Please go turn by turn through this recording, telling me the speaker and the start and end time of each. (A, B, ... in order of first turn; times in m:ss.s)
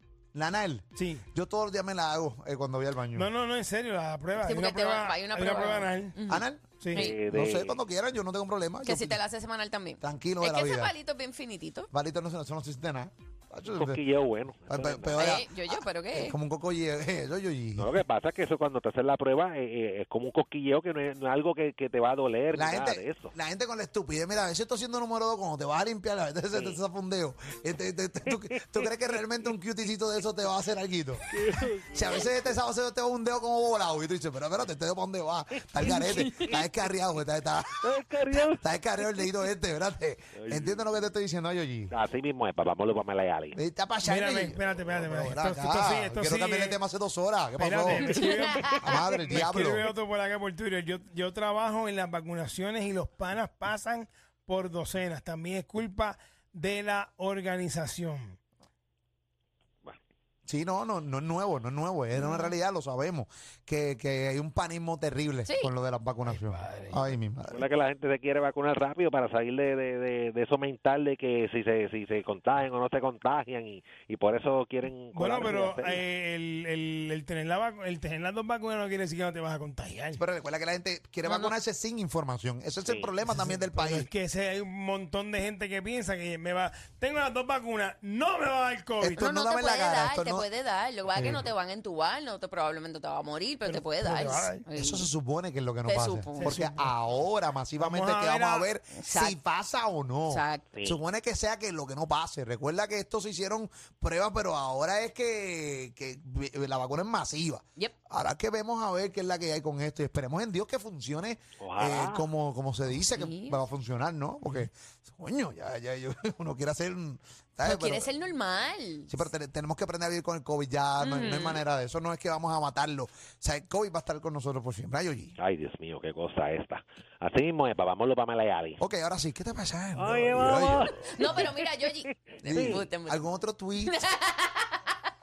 0:00.3-0:03.3 A
0:01.0-0:01.2 B
0:03.1-0:06.2 B
0:04.4-0:07.1 C
0:06.3-0:09.2 A
0:06.9-0:07.8 D
0:08.8-0:11.9 C
0:10.0-0:10.9 A
0:11.9-0:14.0 A
0:13.7-0:15.3 D
0:14.7-0:17.9 A
0:15.2-0:16.4 C
0:17.8-0:23.3 D
0:22.5-0:31.3 A
0:26.5-0:26.8 D
0:28.3-0:29.2 D
0:31.3-0:32.6 D
0:31.9-0:37.8 A
0:35.6-0:36.6 D
0:35.8-0:36.5 C
0:37.8-0:38.6 D
0:38.3-0:41.9 A
0:40.3-0:40.8 D
0:41.9-0:43.6 D
0:43.5-0:49.9 A
0:44.0-0:46.8 B
0:47.6-0:58.4 B
0:48.2-0:48.9 C
1:00.5-1:07.6 A
1:02.1-1:02.5 C
1:05.4-1:05.7 C
1:06.2-1:07.1 B
1:07.5-1:16.0 D
1:15.1-1:20.2 B
1:20.2-1:24.1 A
1:21.2-1:21.5 C
1:22.8-1:23.1 D
1:23.3-1:29.2 B
1:29.0-1:30.4 A
1:29.0-1:35.1 C
1:31.1-1:31.5 A
1:33.6-1:34.6 B
1:34.7-1:58.1 A
1:35.8-1:36.6 C
1:36.4-1:36.9 B
1:37.8-1:38.7 B
1:38.9-1:39.4 C
1:40.3-1:40.6 C
1:51.6-1:52.3 D
1:53.1-1:53.6 C
1:57.6-1:59.3 C
1:59.1-2:05.4 A
2:01.0-2:01.6 C
2:05.4-2:08.8 D
2:08.8-2:11.4 A
2:10.0-2:11.6 D
2:11.1-2:13.3 C
2:12.3-2:12.8 D
2:12.4-2:13.9 A
2:13.8-2:14.8 C